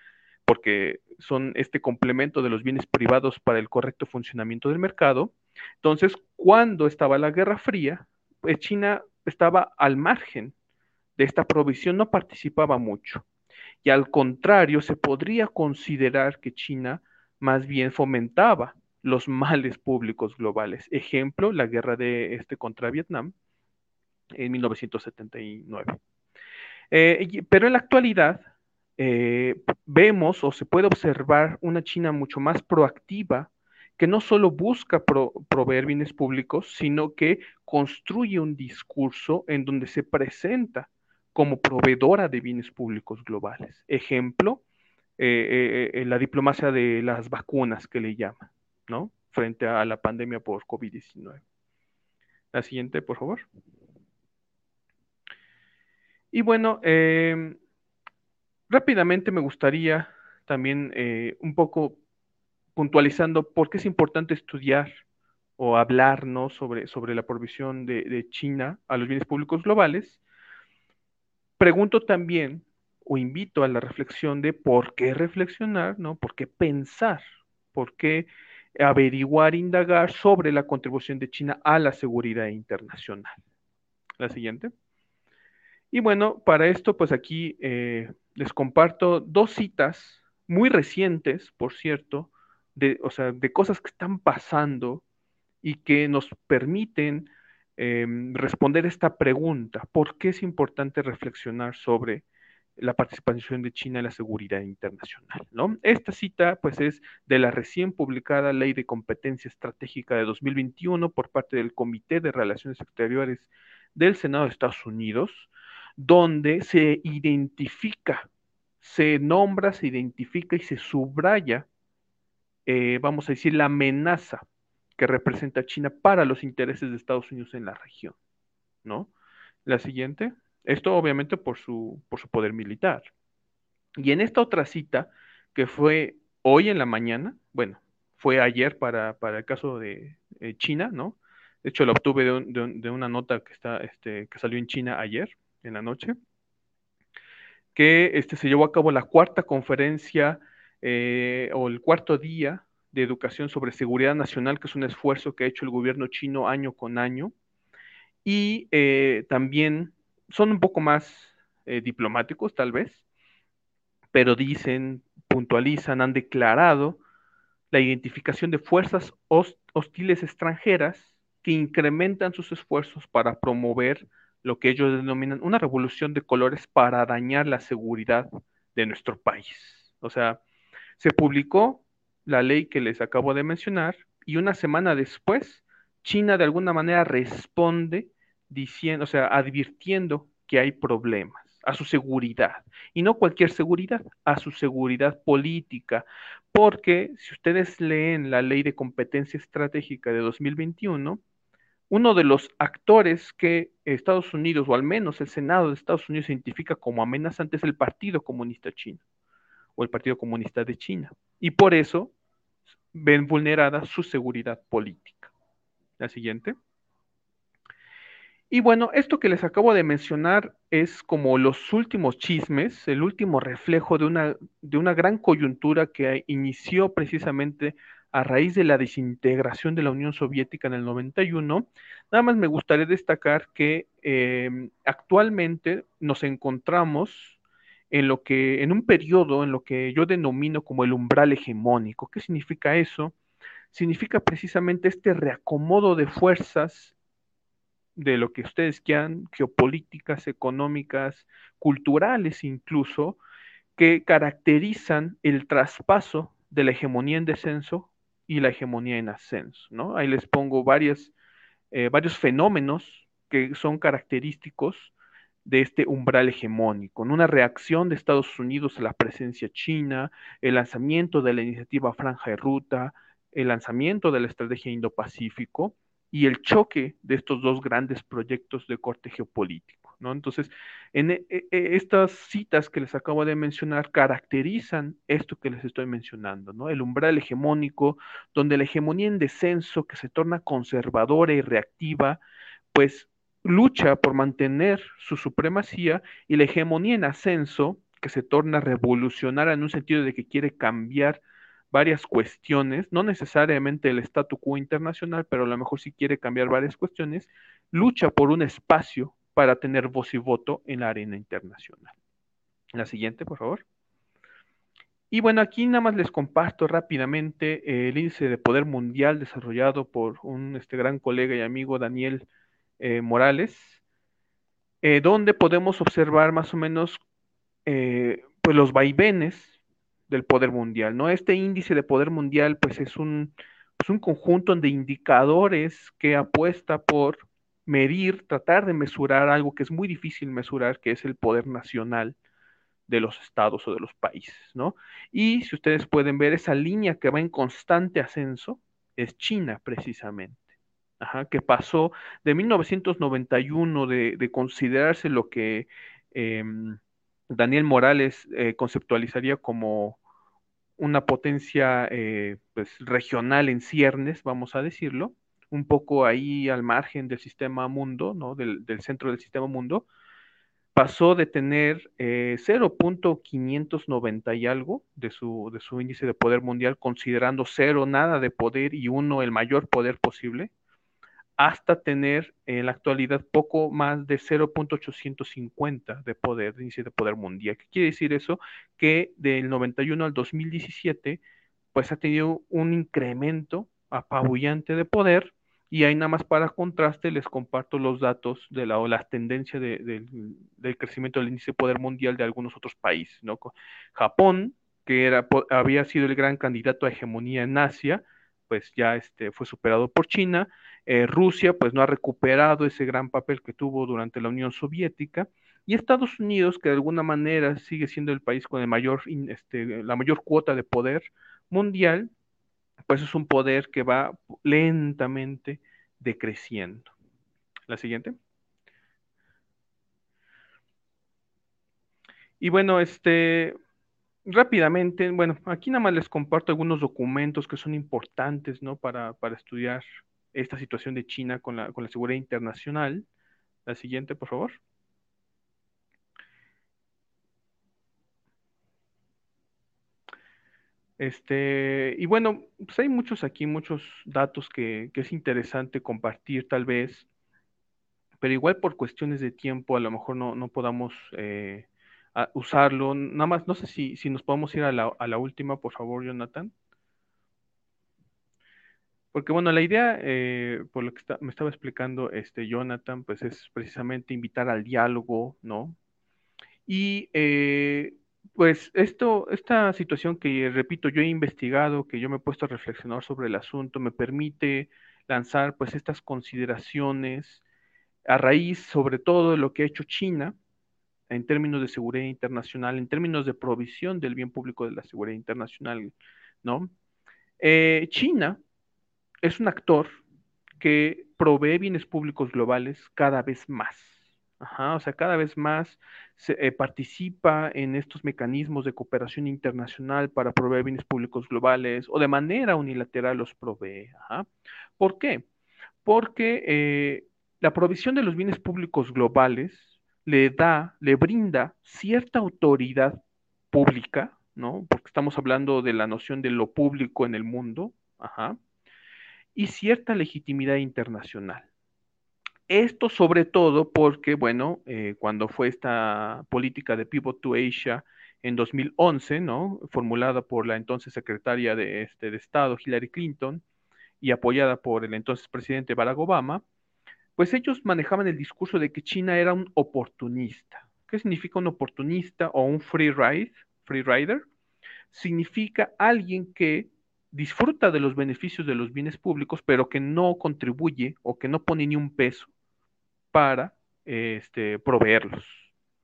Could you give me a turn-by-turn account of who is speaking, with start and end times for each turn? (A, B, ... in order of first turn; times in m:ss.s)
0:00.4-0:10.5 A
0:11.2-0:13.2 A
0:13.8-0:23.3 A
0:24.4-0:26.0 A
0:26.9-0:28.5 A
0:29.0-0:44.6 A
0:45.2-0:51.4 A
0:52.5-0:53.5 A
0:56.3-0:57.6 A
0:58.7-1:02.0 A
1:02.8-1:05.0 A
1:05.6-1:10.2 A
1:11.6-1:17.2 A
1:17.7-1:23.4 A
1:24.2-1:24.7 A
1:25.9-1:35.0 A
1:35.6-1:42.2 A
1:42.8-1:58.3 A
1:58.8-2:01.7 A
2:02.7-2:04.4 A
2:05.0-2:08.2 A
2:08.8-2:09.1 A
2:09.6-2:13.1 A
2:14.0-2:26.2 A
2:27.7-2:37.3 A
2:38.2-2:43.0 A
2:44.1-2:47.0 A
2:47.7-3:00.4 A
3:01.0-3:21.2 A
3:21.9-3:29.0 A
3:29.8-3:32.1 A
3:32.9-3:35.3 A
3:36.0-3:36.6 A
3:38.5-3:57.4 A
3:57.9-4:03.1 A
4:03.7-4:07.0 A
4:08.0-4:13.2 A
4:13.8-4:21.1 A
4:21.7-4:24.9 A
4:25.4-4:52.2 A
4:52.7-5:11.9 A
5:12.8-5:13.6 A
5:15.1-5:22.3 A
5:22.8-5:23.8 A
5:24.8-5:27.0 A
5:27.7-5:29.6 A
5:30.1-5:42.2 A
5:42.9-5:50.4 A
5:51.0-6:00.0 A
6:00.8-6:09.9 A
6:10.8-6:20.5 A
6:21.4-6:31.2 A
6:31.7-7:02.1 A
7:02.9-7:06.9 A
7:07.7-7:08.2 A
7:12.4-7:13.6 A
7:14.3-7:23.1 A
7:23.7-7:24.6 A
7:31.0-7:37.1 A
7:38.2-7:46.5 A
7:49.1-7:55.8 A
7:56.7-8:07.4 A
8:08.1-8:10.4 A
8:11.1-8:16.7 A
8:17.4-8:18.4 A
8:19.2-8:20.0 A
8:20.6-8:34.3 A
8:34.8-8:35.2 A
8:35.8-8:43.0 A
8:43.5-8:48.4 A
8:49.4-8:51.5 A
8:52.5-9:03.4 A
9:04.0-9:06.4 A
9:07.2-9:14.2 A
9:14.9-9:22.3 A
9:23.1-9:25.5 A